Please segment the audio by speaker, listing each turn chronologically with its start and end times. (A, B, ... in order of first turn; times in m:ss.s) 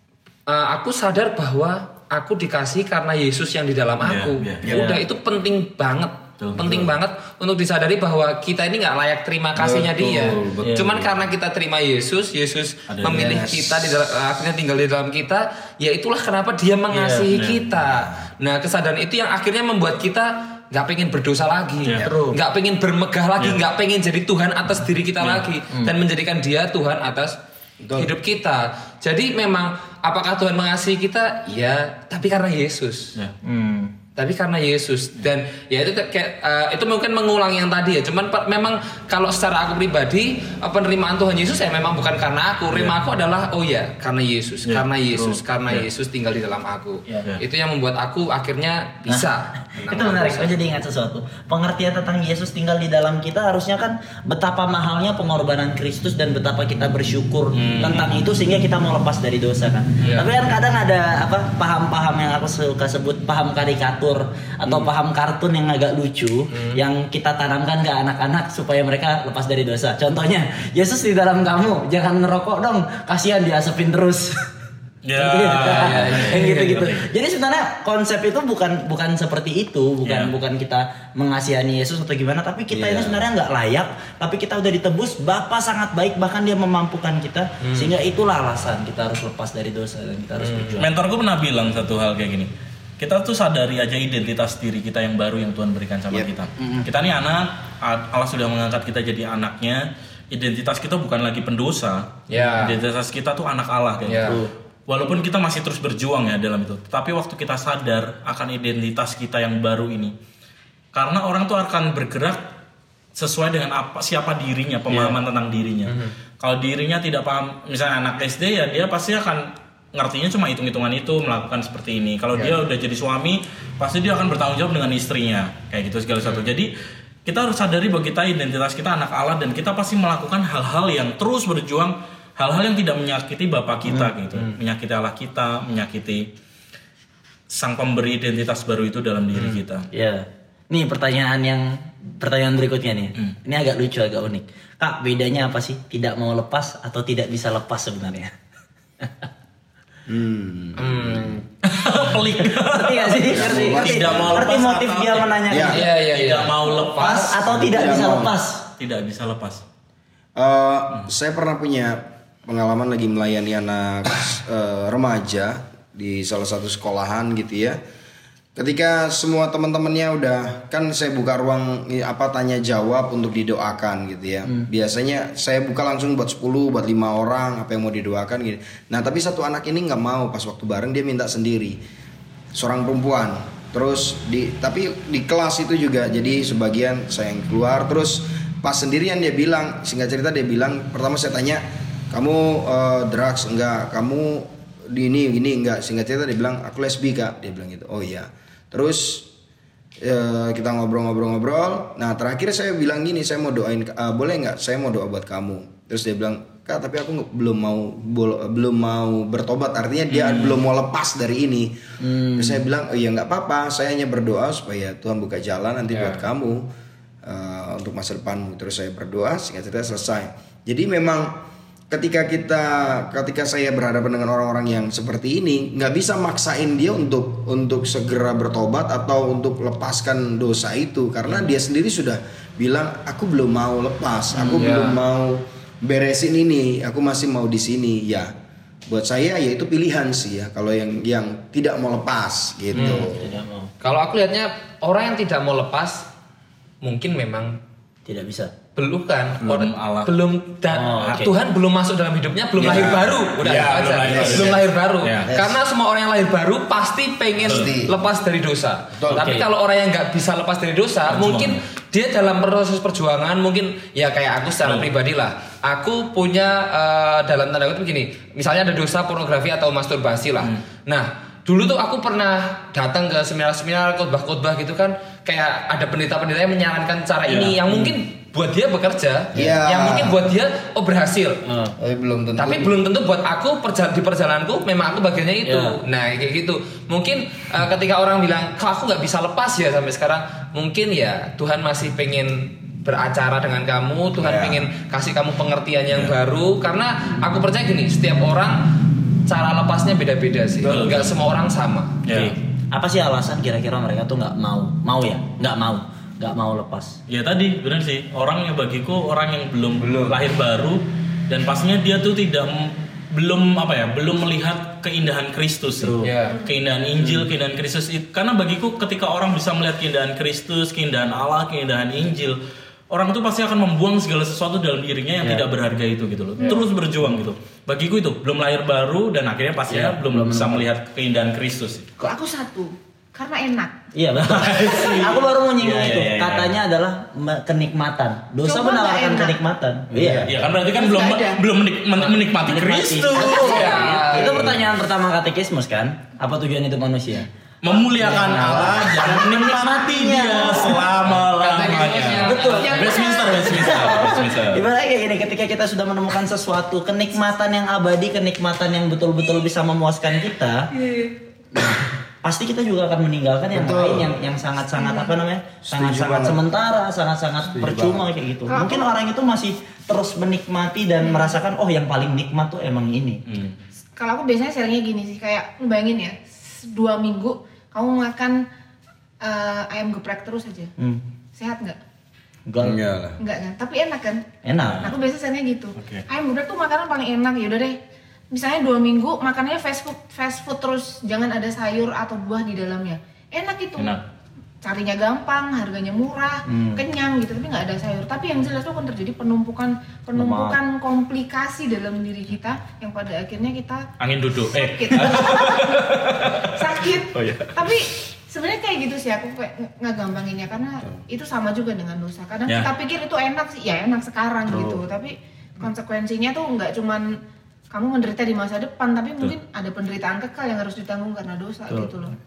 0:00.5-0:27.4 A
0:04.0-0:04.6 B
0:04.6-0:05.0 C
0:06.4-0:06.8 B
0:06.6-0:06.9 D
0:09.6-0:11.0 D
0:10.6-0:11.0 C
0:12.9-0:13.5 B
0:13.1-0:14.1 D
0:16.9-0:17.3 C
0:17.3-0:17.6 B
0:21.8-0:22.1 B
0:22.1-0:22.4 C
0:23.4-0:23.6 B
0:27.8-0:28.1 D
0:27.9-0:33.1 A
0:33.4-0:33.9 C
0:34.2-0:50.5 A
0:49.1-1:14.5 C
0:57.5-0:58.1 B
1:00.0-1:00.3 A
1:06.5-1:06.8 A
1:15.0-1:17.1 B
1:15.2-1:30.9 C
1:15.7-1:16.7 A
1:20.0-1:20.3 B
1:22.7-1:23.2 B
1:27.6-1:27.9 A
1:30.4-1:30.8 A
1:30.8-1:50.1 B
1:36.6-1:36.9 C
1:42.3-1:42.8 A
1:44.0-1:44.4 A
1:44.2-1:44.5 C
1:50.9-1:52.4 B
1:53.2-2:06.7 B
1:55.8-1:56.1 A
2:07.2-2:16.3 B
2:13.8-2:14.1 C
2:17.5-2:19.9 B
2:19.4-2:19.6 A
2:19.9-2:28.3 C
2:29.0-2:29.3 C
2:30.1-2:31.2 D
2:30.8-2:31.5 A
2:31.6-2:37.4 B
2:32.4-2:35.9 C
2:33.3-2:34.5 D
2:35.5-2:35.8 D
2:35.7-2:37.6 A
2:37.0-2:38.7 C
2:37.5-2:38.4 D
2:38.8-2:39.6 B
2:40.4-2:47.8 D
2:48.6-3:01.8 D
3:02.5-3:19.3 D
3:20.0-3:31.8 D
3:32.0-3:32.6 C
3:32.3-3:36.7 D
3:35.9-3:36.2 A
3:37.2-3:41.3 D
3:41.9-3:58.3 D
3:54.4-3:55.0 A
3:58.9-4:03.3 D
4:02.7-4:03.7 C
4:02.8-4:03.1 A
4:03.8-4:06.1 A
4:06.8-4:07.6 A
4:08.1-4:08.5 C
4:08.8-4:41.4 A
4:09.4-4:10.1 B
4:10.7-4:11.3 C
4:12.6-4:14.6 D
4:13.4-4:15.3 B
4:15.3-4:15.6 D
4:17.4-4:17.9 D
4:17.4-4:17.7 B
4:19.0-4:19.3 D
4:19.1-4:19.4 B
4:21.1-4:21.6 B
4:24.6-4:24.9 B
4:37.3-4:37.6 B
4:39.3-4:40.2 D
4:41.4-4:41.8 C
4:41.8-4:42.8 D
4:42.4-4:58.8 A
4:45.4-4:45.8 C
4:54.2-4:54.7 D
4:59.3-5:02.2 A
5:00.6-5:01.1 B
5:02.1-5:02.4 B
5:02.7-5:07.0 C
5:07.1-5:22.4 B
5:15.8-5:16.2 C
5:16.0-5:16.4 A
5:16.3-5:16.5 E
5:22.9-5:31.9 B
5:26.4-5:26.6 E
5:29.7-5:30.6 C
5:32.0-5:33.9 E
5:33.9-5:40.3 C
5:34.2-5:36.6 B
5:38.4-5:39.4 E
5:39.9-5:40.3 D
5:40.3-5:44.6 B
5:40.7-5:41.4 E
5:42.4-5:47.3 C
5:43.2-5:44.4 A
5:47.6-5:54.6 B
5:48.0-5:50.9 C
5:51.0-5:52.9 A
5:52.2-6:00.7 C
5:52.5-5:54.1 E
6:00.8-6:01.2 E
6:01.6-6:13.2 C
6:03.5-6:04.2 D
6:04.8-6:05.1 E
6:05.6-6:06.4 D
6:07.4-6:08.1 D
6:08.5-6:08.9 E
6:11.0-6:11.4 E
6:13.3-6:13.6 B
6:14.0-6:18.4 E
6:19.2-6:20.7 E
6:20.8-6:21.0 C
6:21.4-6:21.8 E
6:22.5-6:22.8 C
6:22.6-6:23.2 D
6:23.2-6:24.3 E
6:24.4-6:24.9 C
6:24.6-6:24.9 B
6:24.8-6:27.8 E
6:25.8-6:26.0 B
6:28.3-6:34.0 E
6:34.6-6:43.9 E
6:36.5-6:36.8 C
6:40.2-6:40.6 C
6:44.0-6:47.8 B
6:44.4-6:57.2 E
6:54.5-6:54.8 C
6:57.7-7:02.1 E